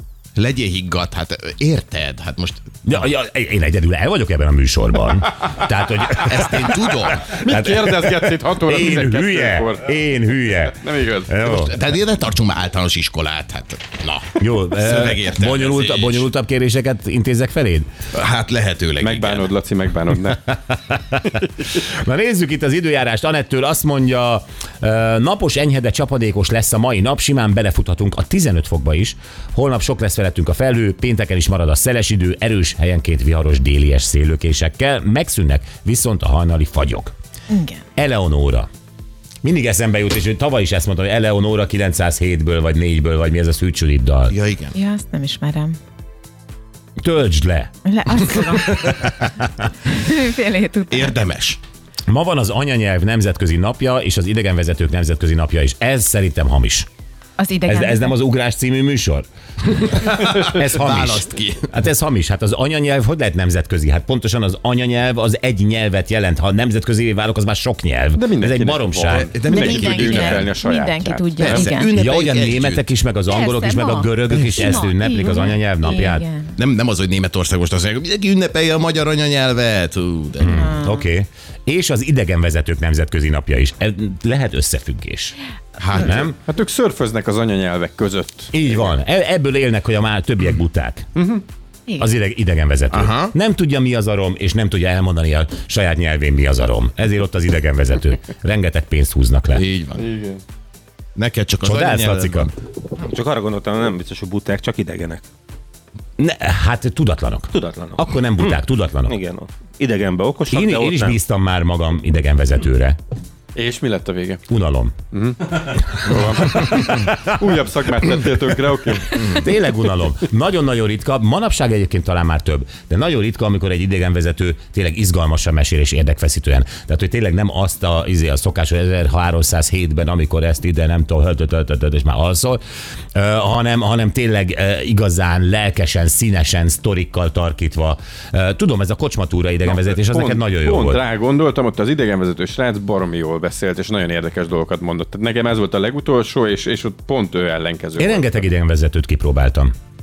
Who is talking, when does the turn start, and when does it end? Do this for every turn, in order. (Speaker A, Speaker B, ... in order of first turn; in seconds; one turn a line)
Speaker A: 0.3-3.0
Speaker B: 2.8-11.7
Speaker A: 6.1-7.3
Speaker C: 7.3-9.9
Speaker C: 10.8-11.4
Speaker A: 11.4-16.2
Speaker B: 14.4-17.9
Speaker A: 18.1-19.5
Speaker C: 19.0-20.6
Speaker B: 20.7-37.1
Speaker D: 37.5-37.8
Speaker B: 38.0-38.7
Speaker B: 39.4-44.3
Speaker A: 44.3-44.7
Speaker D: 44.7-45.8
Speaker B: 47.0-47.7
Speaker D: 47.8-49.0
Speaker B: 48.2-49.3
Speaker D: 49.9-51.2
Speaker A: 50.9-51.6
Speaker B: 52.1-56.9
Speaker D: 57.4-58.1
Speaker B: 57.7-69.3
Speaker A: 59.8-61.7
Speaker C: 68.2-71.6
Speaker A: 69.1-70.5
Speaker D: 69.4-71.9
Speaker A: 71.4-72.8
Speaker B: 71.9-76.3
Speaker D: 73.3-76.5
Speaker A: 76.5-80.7
Speaker B: 80.4-85.3
Speaker D: 80.5-81.0
Speaker A: 85.8-86.3
Speaker B: 85.9-86.3
Speaker C: 86.5-88.6
Speaker B: 88.5-91.1
Speaker C: 91.2-91.4
Speaker B: 92.0-99.6
Speaker A: 92.9-93.3
Speaker A: 99.5-100.0
Speaker C: 100.0-100.4
Speaker A: 101.2-102.5
Speaker B: 101.6-102.5
Speaker E: 103.0-105.2
Speaker B: 106.2-109.2
Speaker E: 107.5-108.0
Speaker E: 109.1-111.2
Speaker B: 110.5-113.0
Speaker C: 113.5-114.4
Speaker B: 114.5-114.9
Speaker C: 115.1-119.4
Speaker B: 116.1-117.3
Speaker B: 119.1-132.6
Speaker B: 133.1-141.0
Speaker C: 139.7-148.3
Speaker B: 148.0-149.7